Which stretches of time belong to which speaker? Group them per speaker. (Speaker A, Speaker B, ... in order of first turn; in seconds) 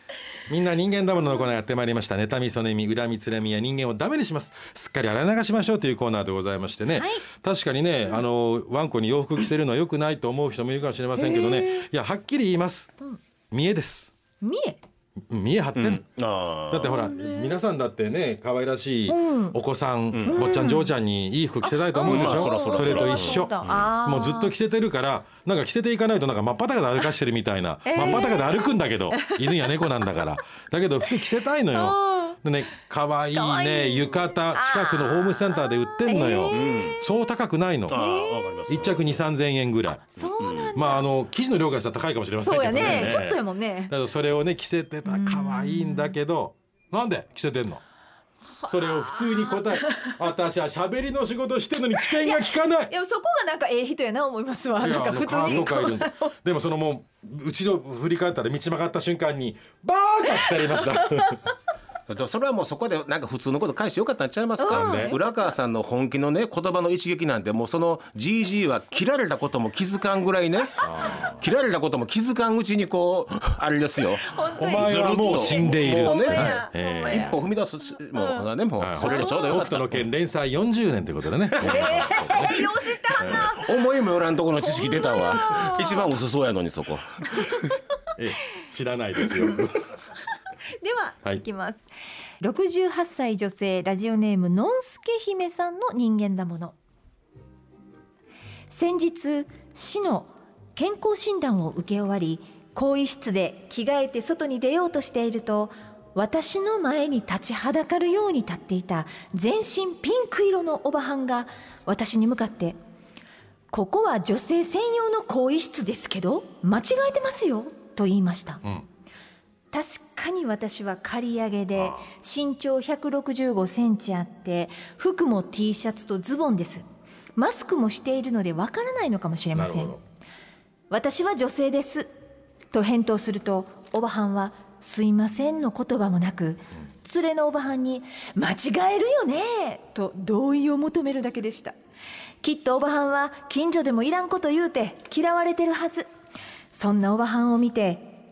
Speaker A: 0.5-12.9, 13.5-14.1, 15.3-38.0, 38.7-40.0, 40.8-47.8, 48.7-52.9, 54.8-61.4, 64.7-65.2, 70.8-71.4, 74.5-77.4, 78.8-83.5, 88.2-89.8, 121.7-122.1, 129.5-130.0
Speaker B: 6.9-7.2, 11.2-11.8, 14.4-14.8, 16.8-17.6, 19.1-19.6, 20.3-20.9, 21.6-24.5, 27.9-28.5, 29.1-29.5, 31.7-32.4, 33.3-37.0, 37.9-38.5, 40.0-41.1, 42.4-43.9, 45.1-46.2, 48.6-50.1, 52.1-56.3, 64.6-65.2, 74.2-77.4, 78.2-78.5, 79.0-79.6, 81.6-83.6, 84.6-86.0, 90.8-91.9, 92.4-96.8, 98.7-112.8, 113.7-118.6, 119.7-126.8, 127.3-130.0, 130.9-132.1, 132.7-141.8, 142.4-146.1, 146.7-148.2
Speaker C: 15.8-17.0, 20.1-20.4, 22.0-23.9, 36.5-37.0, 37.9-39.2, 40.2-40.7, 42.7-43.1, 62.1-80.1, 81.6-82.5, 83.2-87.5